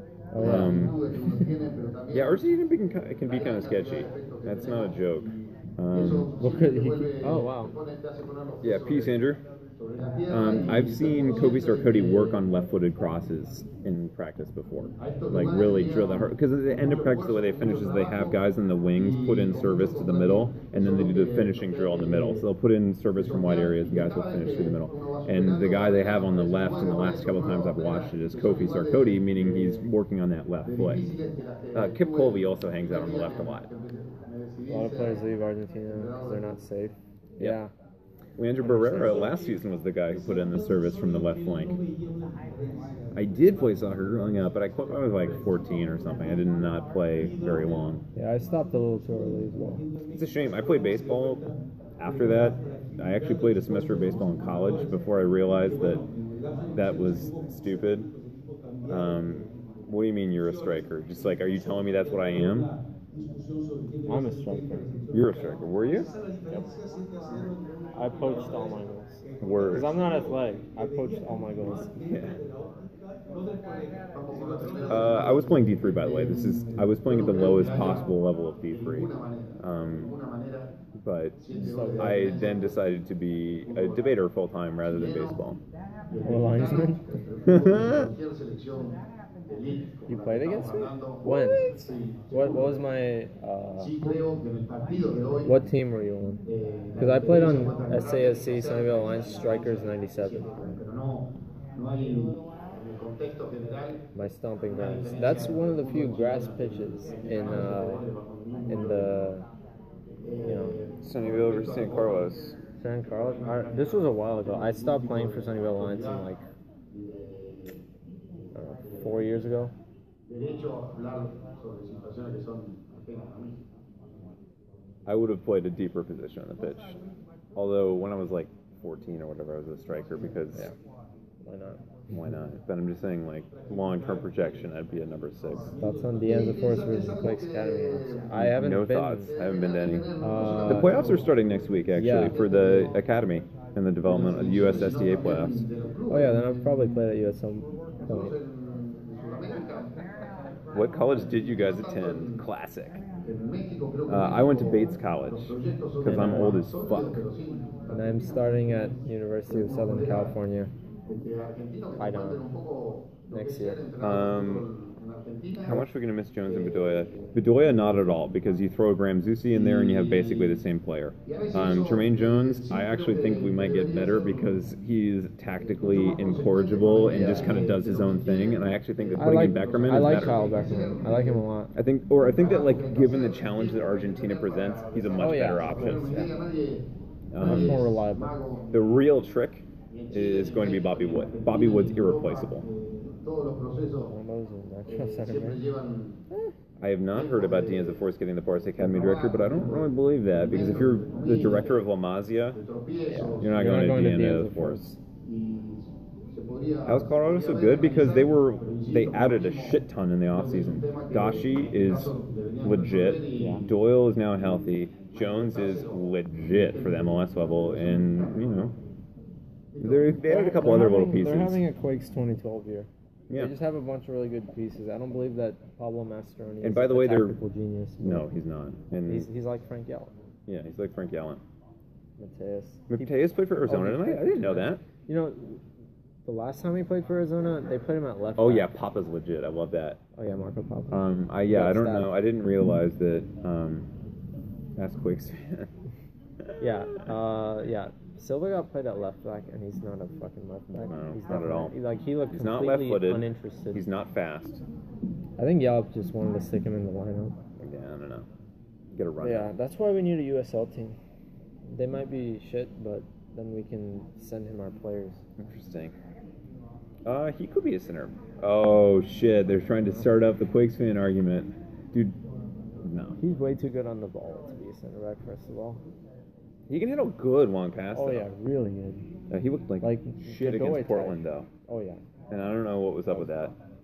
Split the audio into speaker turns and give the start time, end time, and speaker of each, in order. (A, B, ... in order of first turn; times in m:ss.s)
0:00.3-0:01.5 A
0:00.4-0:02.5 B
0:00.4-0:01.0 C
0:02.1-0:06.3 C
0:03.3-0:09.2 B
0:06.4-0:07.7 A
0:08.6-0:09.4 C
0:09.8-0:12.4 B
0:10.3-0:31.0 C
0:15.0-0:18.4 B
0:19.0-0:22.5 B
0:23.2-0:29.8 B
0:30.6-0:35.3 B
0:31.7-0:33.7 C
0:34.7-0:37.7 A
0:35.9-0:36.6 B
0:38.4-0:41.8 C
0:38.6-0:39.3 A
0:43.1-0:48.0 C
0:48.2-0:49.8 A
0:50.1-0:51.4 C
0:52.0-0:56.0 C
0:56.7-0:58.1 C
0:58.9-1:02.7 C
1:04.1-1:04.9 A
1:05.1-1:06.1 C
1:07.9-1:11.9 A
1:09.4-1:10.3 C
1:12.1-1:12.4 C
1:14.1-1:20.7 B
1:14.9-1:20.1 C
1:21.0-1:25.6 C
1:21.4-1:22.7 B
1:21.5-1:22.2 A
1:23.7-1:24.0 B
1:24.9-1:25.4 B
1:26.1-1:32.8 B
1:26.2-1:27.2 A
1:27.5-1:28.1 C
1:30.1-1:34.0 A
1:31.3-1:31.8 C
1:33.8-1:35.6 B
1:35.4-1:36.4 A
1:36.5-1:44.1 B
1:37.0-1:40.5 A
1:44.2-1:48.1 A
1:44.7-1:49.4 B
1:48.7-1:49.5 A
1:50.2-1:52.4 B
1:50.4-1:50.8 A
1:51.0-1:52.6 C
1:52.8-1:56.4 A
1:53.0-1:56.3 B
1:56.9-1:57.8 B
1:58.6-1:59.7 A
1:58.6-1:59.4 B
2:00.3-2:03.6 B
2:05.1-2:07.0 C
2:07.6-2:10.7 C
2:11.4-2:12.2 A
2:12.1-2:15.7 C
2:15.8-2:19.4 A
2:16.2-2:18.6 B
2:18.3-2:25.6 C
2:19.2-2:21.4 B
2:20.2-2:21.1 A
2:21.9-2:22.4 A
2:22.1-2:23.0 B
2:24.1-2:26.7 B
2:26.1-2:28.4 A
2:28.0-2:30.0 B
2:30.7-2:33.0 C
2:31.1-2:32.4 B
2:33.2-2:38.0 B
2:34.1-2:37.2 C
2:36.1-2:36.5 A
2:37.9-2:40.7 A
2:39.5-2:40.4 B
2:41.1-2:45.8 B
2:42.0-2:42.4 A
2:43.3-2:43.8 A
2:44.0-2:44.7 C
2:45.7-3:00.5 C
2:46.4-2:48.2 B
2:49.5-2:50.6 B
2:51.3-2:54.6 B
2:55.6-3:01.5 B
2:57.1-2:57.6 A
2:59.2-3:01.7 A
3:01.8-3:06.1 C
3:02.2-3:09.0 B
3:05.2-3:06.3 A
3:07.3-3:07.9 C
3:07.4-3:08.3 A
3:08.7-3:12.7 C
3:09.9-3:14.2 B
3:14.1-3:15.6 A
3:14.9-3:16.2 B
3:16.3-3:22.6 C
3:17.1-3:18.0 B
3:18.8-3:21.8 B
3:22.5-3:23.6 B
3:23.1-3:25.0 A
3:23.4-3:24.9 C
3:25.2-3:33.6 B
3:26.9-3:38.8 C
3:33.4-3:33.7 A
3:35.1-3:38.8 B
3:39.7-3:40.3 B
3:39.8-3:41.6 C
3:40.2-3:48.3 A
3:43.3-3:43.6 C
3:46.6-3:47.4 C
3:48.0-3:49.3 C
3:49.1-3:50.1 A
3:50.5-3:51.4 C
3:52.2-3:55.6 A
3:52.9-3:54.8 C
3:56.2-3:58.7 A
3:58.4-4:00.0 C
4:00.2-4:02.1 A
4:00.9-4:03.9 C
4:04.8-4:05.7 C
4:06.6-4:13.8 A
4:10.7-4:11.8 C
4:12.3-4:14.6 C
4:15.4-4:17.4 A
4:17.6-4:18.3 C
4:18.9-4:19.5 C
4:19.2-4:21.0 A
4:21.7-4:25.2 A
4:25.4-4:26.0 C
4:27.0-4:32.2 C
4:32.8-4:33.2 C
4:33.2-4:35.8 A
4:36.7-4:38.3 C
4:37.9-4:39.1 A
4:39.3-4:41.5 C
4:39.8-4:42.0 A
4:42.3-4:43.6 C